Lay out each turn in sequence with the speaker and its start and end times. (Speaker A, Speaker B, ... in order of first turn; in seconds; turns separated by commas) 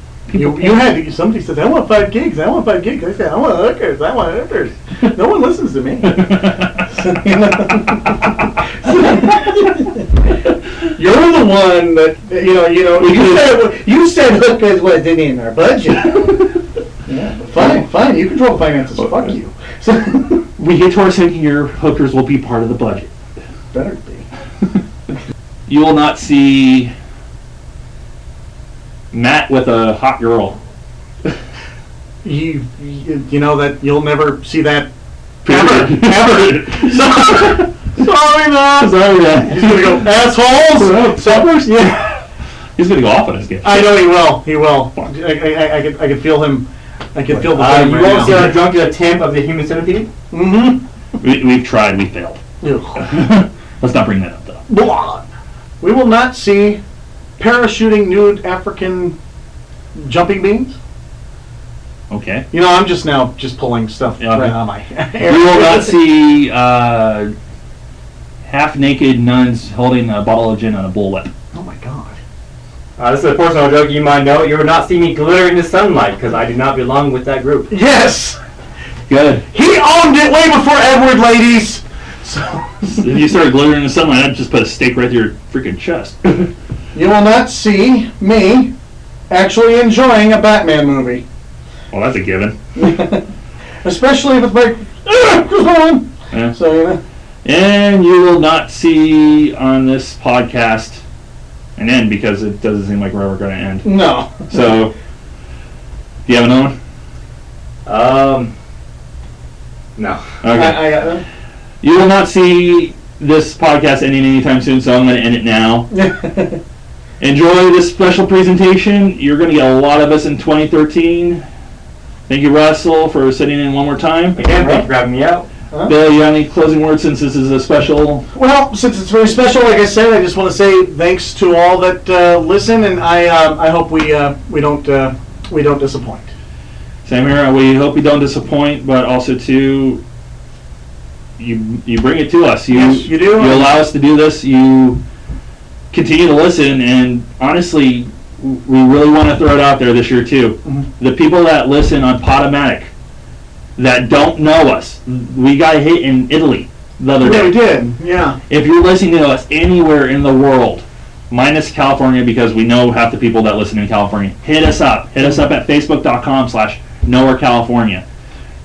Speaker A: 0.3-0.9, Speaker B: 0.3-10.0, Speaker A: 6.0-6.8, Speaker B: 10.9-16.4, Speaker A: 13.0-13.6, Speaker B: 17.1-20.4, Speaker A: 20.6-23.1, Speaker B: 23.7-24.3, Speaker A: 25.7-26.9, Speaker A: 29.1-30.6, Speaker B: 32.2-34.9, Speaker A: 35.4-37.7, Speaker B: 35.4-42.2, Speaker A: 38.7-40.1, Speaker A: 40.7-42.0, Speaker A: 42.8-44.2, Speaker B: 43.6-48.6, Speaker C: 47.4-50.1, Speaker B: 50.3-50.8, Speaker A: 51.2-52.4, Speaker B: 52.6-53.0, Speaker A: 53.0-54.6, Speaker B: 54.7-55.2, Speaker B: 55.8-56.8, Speaker B: 57.4-59.1, Speaker B: 59.9-60.8, Speaker A: 62.1-62.5, Speaker B: 62.5-66.0, Speaker A: 64.2-64.5, Speaker A: 65.2-67.3, Speaker A: 68.4-71.3, Speaker B: 71.5-72.2, Speaker C: 73.0-77.7, Speaker B: 77.7-78.4, Speaker A: 79.1-79.5, Speaker B: 79.5-82.8, Speaker A: 82.8-86.5, Speaker B: 86.9-88.7, Speaker B: 89.3-91.2, Speaker A: 91.9-92.5, Speaker B: 92.8-93.2, Speaker B: 93.8-97.0, Speaker A: 97.4-101.0, Speaker A: 101.8-103.9, Speaker B: 103.8-104.4, Speaker A: 104.5-104.9, Speaker A: 106.3-106.8, Speaker C: 107.8-108.5, Speaker A: 110.4-111.0, Speaker B: 110.5-111.2, Speaker A: 111.8-115.9, Speaker B: 115.9-116.6, Speaker A: 117.2-121.4, Speaker A: 122.3-124.4, Speaker C: 124.3-125.5, Speaker B: 124.6-124.8, Speaker B: 125.7-126.0, Speaker A: 125.9-128.2, Speaker B: 128.3-136.3, Speaker A: 137.0-140.0, Speaker A: 141.4-145.0, Speaker B: 142.7-143.8, Speaker A: 145.9-152.9, Speaker A: 153.8-157.6, Speaker B: 157.2-158.4, Speaker A: 158.5-168.0